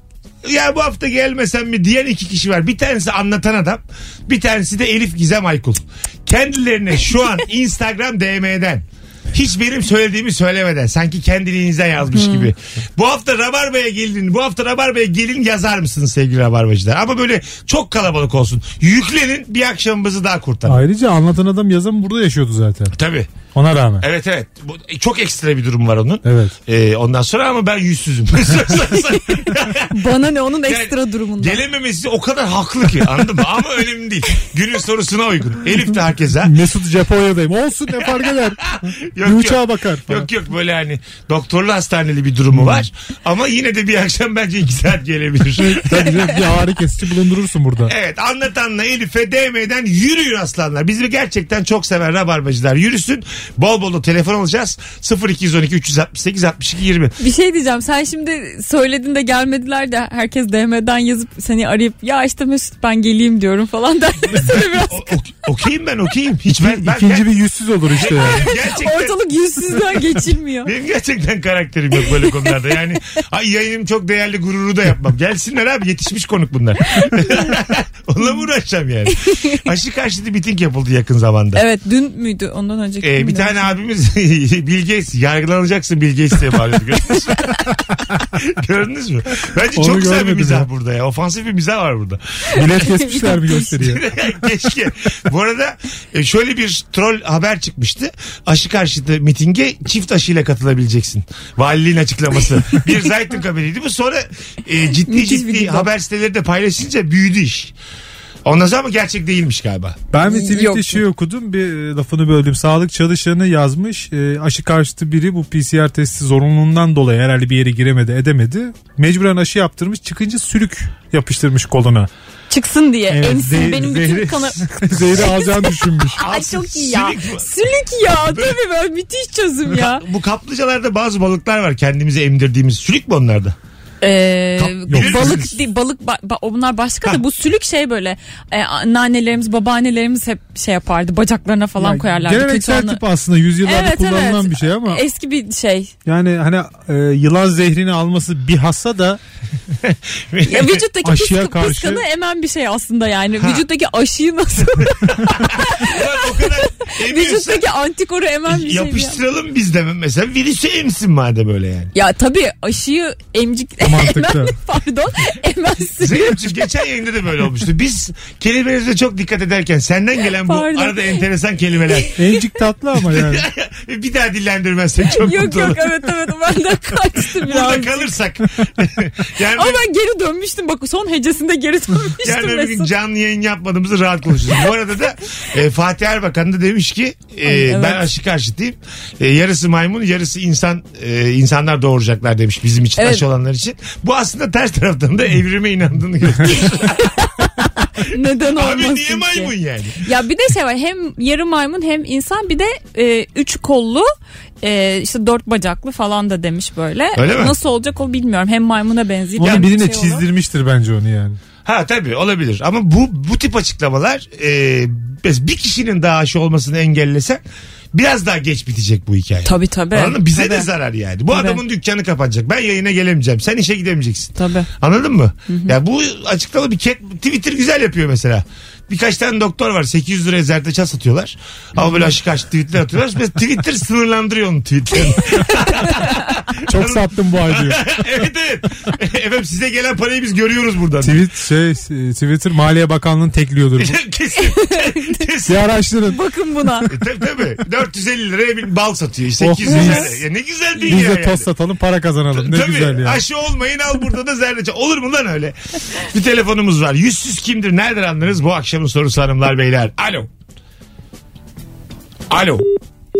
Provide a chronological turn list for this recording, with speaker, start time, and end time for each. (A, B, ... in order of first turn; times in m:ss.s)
0:00.4-0:20.8 A
0:12.1-0:12.5 B
0:20.7-0:22.9 C
0:22.9-0:23.3 A
0:23.5-0:24.0 C
0:24.0-0:29.9 A
0:26.2-0:26.5 C
0:29.0-0:31.6 B
0:30.7-0:36.5 A
0:36.4-0:40.3 C
0:38.7-0:46.3 A
0:42.5-0:42.8 C
0:45.6-0:47.9 C
0:47.8-0:57.1 A
0:57.2-1:05.1 B
1:04.4-1:07.3 A
1:06.6-1:08.4 C
1:08.0-1:09.1 A
1:08.1-1:10.7 B
1:10.6-1:21.6 A
1:17.0-1:17.5 B
1:19.3-1:19.6 B
1:21.5-1:23.6 B
1:23.0-1:27.6 A
1:28.2-1:32.2 A
1:29.8-1:30.7 C
1:32.5-1:34.0 C
1:32.8-1:33.6 B
1:33.7-1:47.7 A
1:45.1-1:45.9 B
1:48.4-1:50.0 A
1:50.1-2:02.1 C
1:50.2-1:51.0 B
2:02.5-2:04.6 B
2:03.1-2:06.2 C
2:05.2-2:10.0 B
2:06.2-2:07.4 A
2:08.3-2:08.6 A
2:09.8-2:13.6 A
2:14.0-2:23.0 B
2:14.6-2:15.6 A
2:14.9-2:15.4 C
2:21.8-2:25.0 C
2:23.6-2:25.9 B
2:26.0-2:29.2 C
2:29.8-2:30.8 A
2:30.4-2:39.2 B
2:31.0-2:32.0 C
2:35.3-2:37.6 A
2:38.5-2:41.9 A
2:41.9-2:46.5 B
2:43.8-2:44.6 C
2:46.0-2:52.2 A
2:50.4-2:51.0 B
2:52.2-2:53.4 C
2:53.0-2:55.9 A
2:55.1-2:58.1 B
2:57.4-2:59.8 A
2:59.5-3:02.9 B
3:02.2-3:17.1 A
3:07.4-3:08.1 B
3:13.0-3:13.2 B
3:16.5-3:24.1 B
3:18.5-3:20.0 A
3:24.6-3:30.2 B
3:27.2-3:27.6 A
3:29.4-3:31.4 C
3:31.6-3:37.4 A
3:37.9-4:01.2 A
3:39.4-3:40.7 B
3:41.3-3:41.6 B
3:44.4-3:44.7 B
3:45.5-3:45.8 B
3:56.6-3:58.2 C
4:01.0-4:04.0 C
4:03.8-4:05.6 A
4:04.6-4:05.2 B
4:05.4-4:06.2 C
4:06.1-4:06.9 B
4:06.9-4:11.5 A
4:09.4-4:10.2 C
4:09.7-4:10.1 B
4:10.9-4:13.2 C
4:12.3-4:20.3 A
4:22.3-4:22.7 A